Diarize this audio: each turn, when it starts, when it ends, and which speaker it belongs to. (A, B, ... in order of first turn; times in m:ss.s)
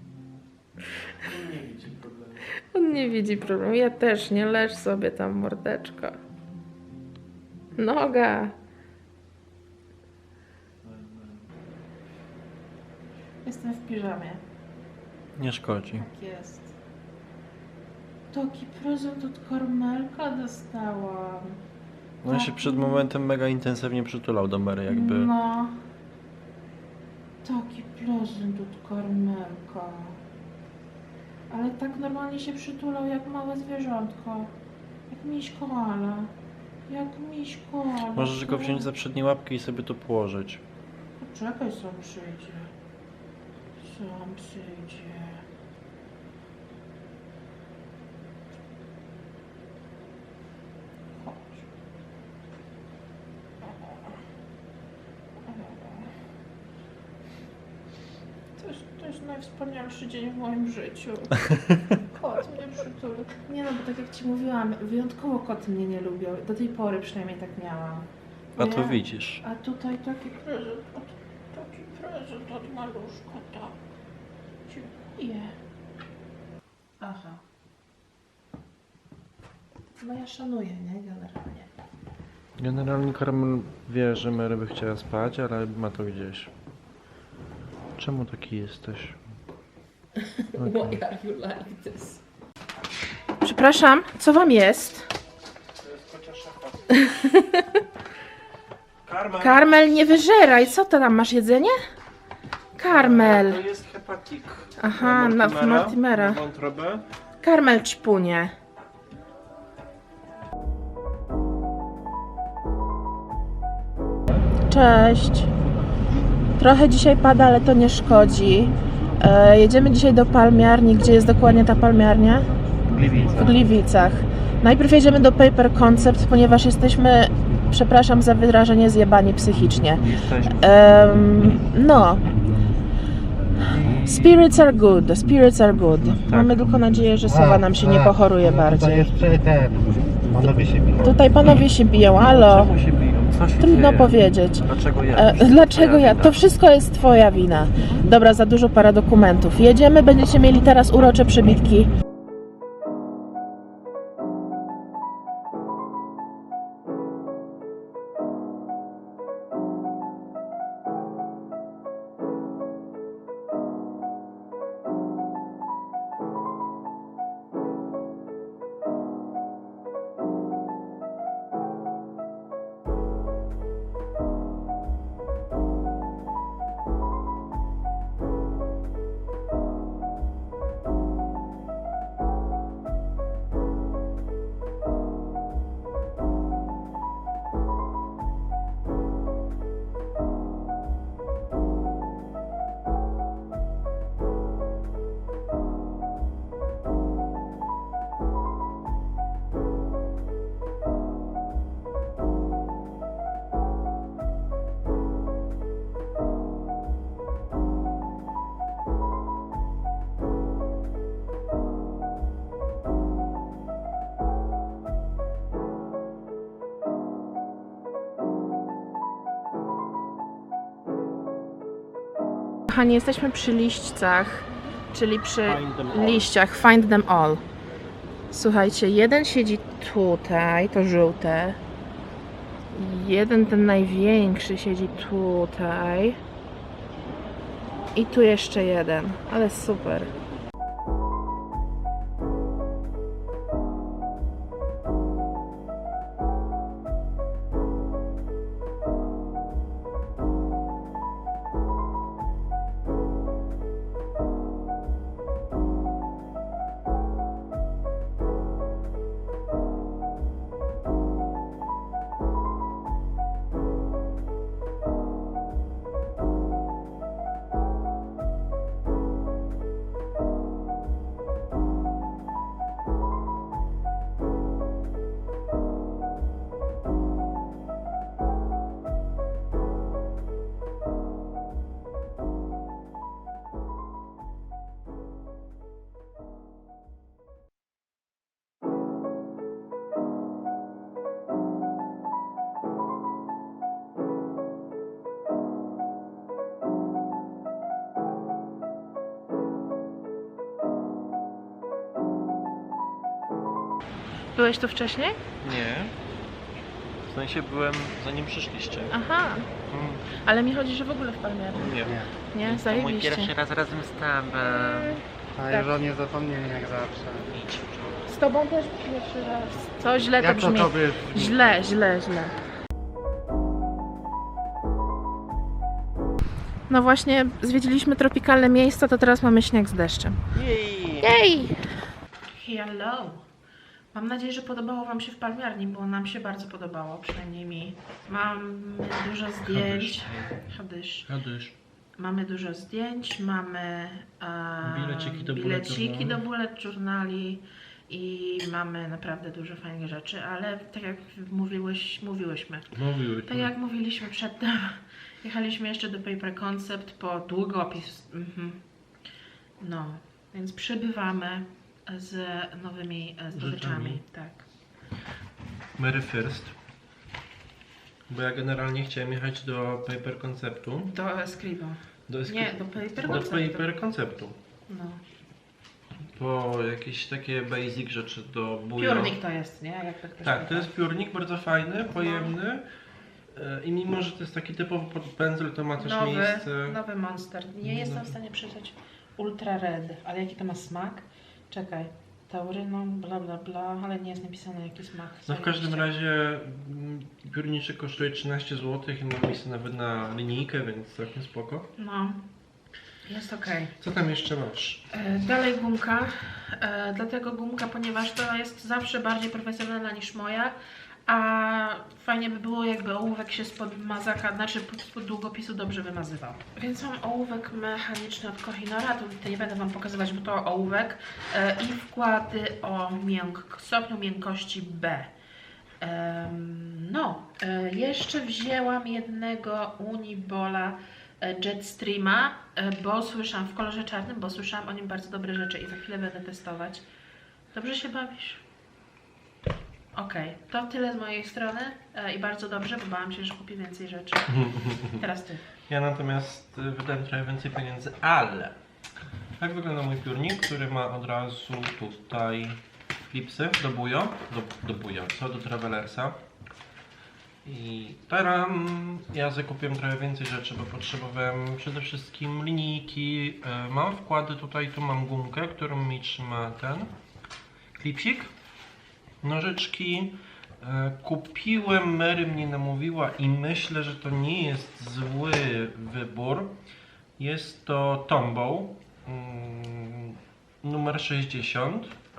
0:01.2-0:03.6 A
0:02.7-0:06.2 B
0:07.8-0:08.5 B
0:10.8-0:11.5 A
0:13.4-0:14.4 B
0:15.4-0:16.0 A
0:16.0-0:16.7 B
0:18.3-0:21.6 B
0:22.2-0:25.3 A
0:22.3-0:23.1 B
0:24.9-0:25.8 B
0:27.4-0:30.2 B
0:31.5-0:34.5 B
0:35.1-0:36.3 B
0:36.9-0:38.9 B
0:38.1-0:40.6 A
0:41.2-0:42.7 B
0:43.8-0:45.4 B
0:51.2-0:51.7 B
0:53.6-0:54.0 B
0:55.5-0:56.1 B
0:58.6-1:13.8 B
1:08.6-1:09.4 A
1:14.7-1:15.6 B
1:17.0-1:17.4 B
1:20.0-1:21.7 B
1:22.6-1:26.5 A
1:28.0-1:29.2 A
1:30.2-1:32.2 B
1:30.6-1:31.0 A
1:33.4-1:35.1 B
1:35.8-1:37.0 A
1:36.9-1:37.8 B
1:39.0-1:39.6 A
1:39.4-1:41.8 B
1:42.8-1:43.6 B
1:42.9-1:47.0 A
1:44.8-1:46.4 B
1:47.4-1:48.5 B
1:54.7-1:55.5 B
1:56.6-2:02.5 B
2:02.9-2:03.6 A
2:03.3-2:12.3 B
2:10.0-2:10.6 A
2:13.8-2:14.3 A
2:14.0-2:19.4 B
2:16.3-2:16.6 A
2:21.0-2:22.7 B
2:22.2-2:26.4 A
2:23.6-2:31.9 B
3:42.7-3:47.4 B
3:45.4-3:46.3 A
3:48.3-3:51.6 B
3:52.7-3:56.2 B
3:58.0-4:00.1 B
5:04.3-5:05.2 B
5:05.4-5:05.9 A
5:07.1-5:09.0 A
5:08.9-5:09.5 B
5:09.7-5:10.0 A
5:10.2-5:13.3 B
5:11.5-5:15.0 A
5:14.4-5:15.8 B
5:15.4-5:17.3 C
5:17.3-5:18.1 A
5:18.1-5:22.3 B
5:20.2-5:21.1 C
5:21.2-5:21.4 A
5:26.7-5:30.2 B
5:30.3-5:31.2 A
5:31.0-5:33.2 B
5:33.9-5:41.1 B
5:39.4-5:40.4 A
5:41.1-5:41.6 A
5:42.0-5:52.8 B
5:44.6-5:46.2 A
5:52.7-5:53.5 A
5:53.3-5:58.6 B
5:59.6-6:04.4 B
6:03.3-6:04.0 A
6:05.8-6:06.6 A
6:08.1-6:10.9 A
6:10.9-6:13.8 B
6:12.1-6:14.4 A
6:14.7-6:15.0 B
6:16.1-6:19.2 A
6:18.8-6:20.7 B
6:20.2-6:22.6 A
6:22.0-6:22.4 B
6:23.3-6:26.8 A
6:25.8-6:35.9 B
6:27.6-6:28.2 A
6:35.3-6:41.7 A
6:41.8-6:42.2 B
6:43.0-6:43.8 B
6:43.8-6:44.8 A
6:44.9-6:50.6 B
6:51.1-7:05.1 B
7:05.8-7:16.8 B
7:17.5-7:18.4 B
7:19.9-7:25.5 B
7:24.3-7:25.0 A
7:25.6-7:28.6 A
7:29.4-7:32.6 A
7:33.1-7:36.2 A
7:37.4-7:46.9 A
7:47.8-7:48.3 A
7:49.2-7:56.5 A
7:57.2-8:02.0 A